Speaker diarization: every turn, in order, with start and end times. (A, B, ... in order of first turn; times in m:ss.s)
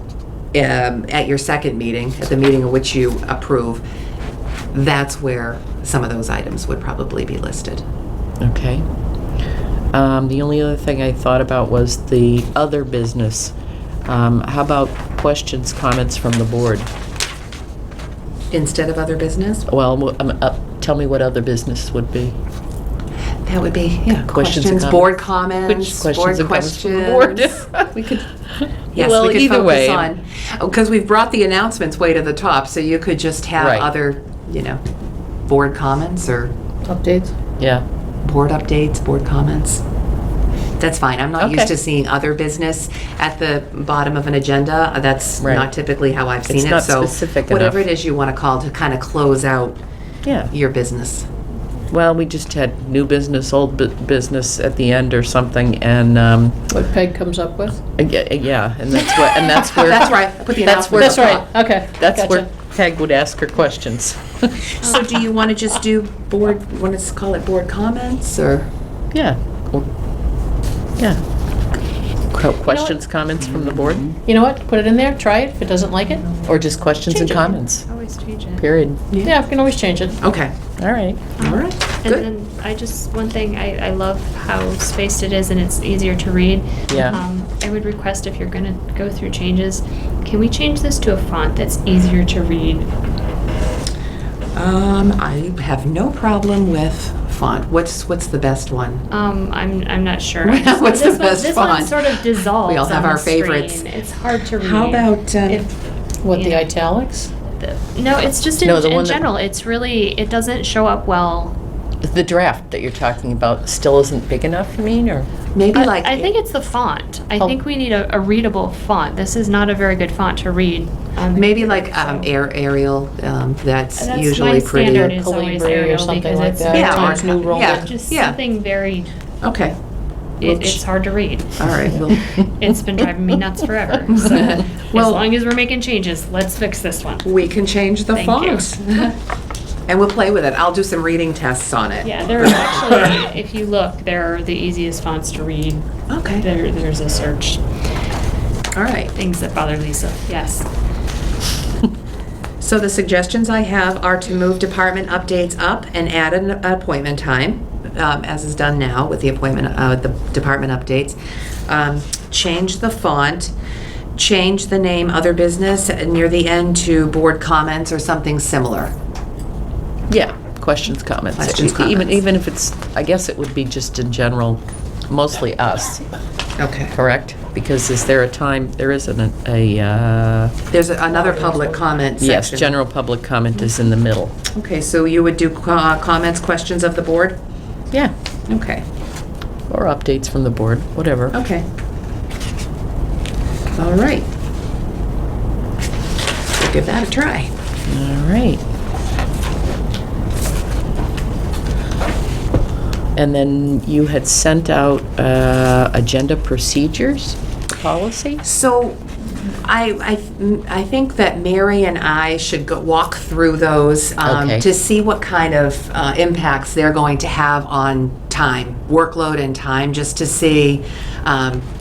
0:00.5-0:03.8 A
0:04.7-0:07.8 A
0:08.4-0:08.8 B
0:09.9-0:13.5 B
0:14.1-0:16.9 B
0:18.5-0:19.7 A
0:19.7-0:22.4 B
0:23.4-0:28.3 A
0:24.2-0:28.0 B
0:28.6-0:30.1 B
0:28.9-0:34.8 A
0:33.6-0:33.9 B
0:35.5-0:36.5 A
0:36.9-0:37.3 C
0:37.6-0:37.8 B
0:38.2-0:39.8 A
0:40.8-0:49.8 A
0:41.4-0:41.7 B
0:45.4-0:45.7 B
0:46.5-0:47.8 B
0:50.2-0:50.5 B
0:50.4-0:51.3 A
0:51.9-0:56.7 B
0:56.7-0:57.8 C
0:58.0-1:04.6 B
0:59.4-1:01.4 A
1:00.8-1:02.5 C
1:04.8-1:08.7 A
1:09.1-1:09.9 B
1:12.3-1:14.2 B
1:14.2-1:16.4 C
1:16.4-1:17.9 B
1:17.1-1:18.6 D
1:18.6-1:19.0 B
1:19.2-1:20.2 C
1:20.2-1:20.6 A
1:20.8-1:21.2 B
1:21.4-1:32.9 D
1:21.4-1:22.2 A
1:26.9-1:27.2 B
1:34.5-1:39.0 A
1:39.1-1:45.1 D
1:40.4-1:43.8 A
1:44.6-1:45.7 A
1:46.2-1:47.3 C
1:46.3-1:46.8 D
1:47.5-1:51.6 D
1:48.6-1:49.2 B
1:52.0-1:55.3 B
1:55.5-1:56.3 A
1:55.7-2:02.3 D
2:01.3-2:05.1 A
2:04.0-2:09.1 D
2:04.8-2:07.9 C
2:06.7-2:08.4 A
2:09.4-2:09.8 A
2:10.4-2:17.2 D
2:11.6-2:12.4 A
2:14.1-2:15.2 A
2:17.2-2:19.1 A
2:18.1-2:18.8 D
2:19.9-2:22.8 A
2:22.0-2:27.6 D
2:26.1-2:26.4 A
2:28.7-2:29.1 A
2:29.1-2:30.7 D
2:32.6-2:43.5 A
2:44.1-2:48.9 A
2:50.1-2:56.0 B
2:51.4-2:52.2 A
2:56.6-2:56.9 A
2:56.9-3:00.5 B
3:00.7-3:02.7 A
3:01.2-3:01.8 C
3:02.2-3:04.4 B
3:04.5-3:07.4 A
3:08.5-3:08.8 A
3:09.7-3:11.3 B
3:11.3-3:11.7 A
3:13.7-3:14.3 A
3:16.6-3:17.5 A
3:17.9-3:18.6 B
3:23.1-3:28.4 B
3:28.4-3:41.7 A
3:34.2-3:34.7 B